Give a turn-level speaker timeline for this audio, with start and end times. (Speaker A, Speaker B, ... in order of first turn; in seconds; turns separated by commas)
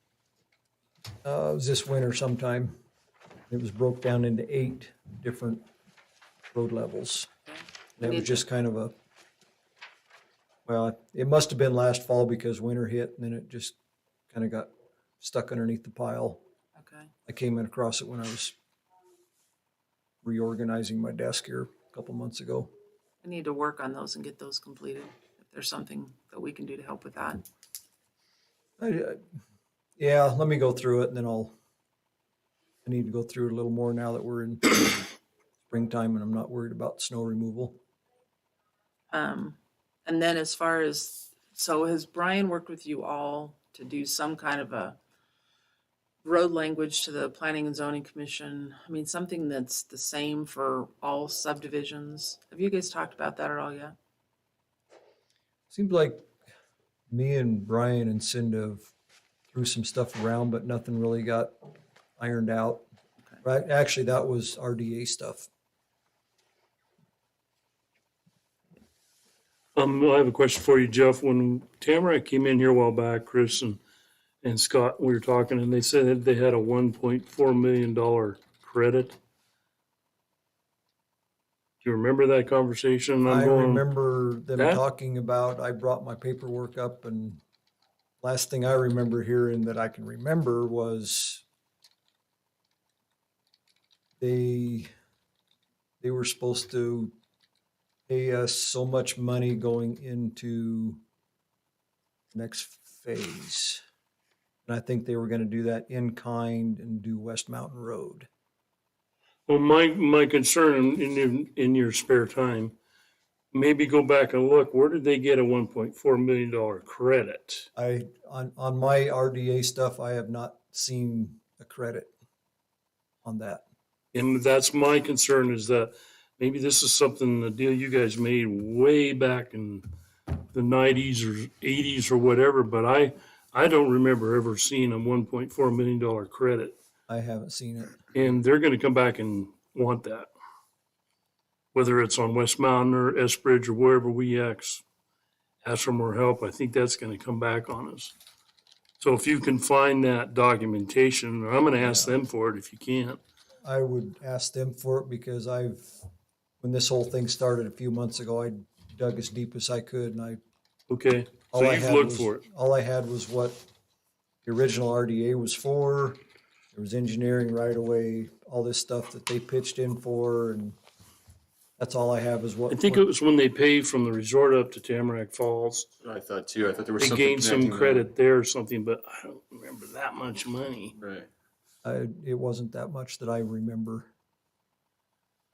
Speaker A: 1.2-2.7, Speaker A: 3.5-5.6, Speaker A: 6.5-7.3, Speaker B: 7.5-8.4, Speaker A: 8.0-8.9, Speaker A: 10.7-13.8, Speaker A: 14.3-14.7, Speaker A: 15.2-16.4, Speaker B: 16.8-17.1, Speaker A: 17.3-18.5, Speaker A: 20.2-22.7, Speaker B: 23.2-27.4, Speaker A: 28.8-29.2, Speaker A: 30.0-31.5, Speaker A: 32.8-35.1, Speaker A: 35.7-37.8, Speaker B: 39.1-45.0, Speaker B: 46.2-53.9, Speaker A: 55.7-56.3, Speaker A: 57.1-58.9, Speaker A: 59.5-61.5, Speaker A: 62.2-62.8, Speaker A: 63.4-65.5, Speaker C: 69.7-73.8, Speaker C: 74.4-79.2, Speaker C: 81.8-83.8, Speaker A: 83.2-87.4, Speaker C: 84.5-84.8, Speaker A: 88.2-91.4, Speaker A: 94.2-94.9, Speaker A: 96.0-97.1, Speaker A: 98.1-101.0, Speaker A: 102.3-103.8, Speaker A: 104.7-108.3, Speaker C: 109.5-112.7, Speaker C: 113.5-117.7, Speaker A: 117.8-122.1, Speaker A: 123.2-123.6, Speaker C: 124.1-129.8, Speaker C: 130.5-136.8, Speaker A: 137.1-138.0, Speaker C: 138.1-140.3, Speaker C: 141.7-144.8, Speaker C: 145.6-148.1, Speaker C: 149.0-153.2, Speaker A: 151.8-152.2, Speaker A: 153.6-155.9, Speaker A: 156.6-160.4, Speaker C: 160.9-162.4, Speaker A: 161.5-163.6, Speaker A: 164.4-166.2, Speaker A: 166.7-170.8, Speaker A: 171.8-173.0, Speaker C: 172.7-175.9, Speaker D: 176.0-178.1, Speaker C: 177.0-180.9, Speaker D: 181.0-181.3, Speaker A: 181.8-184.1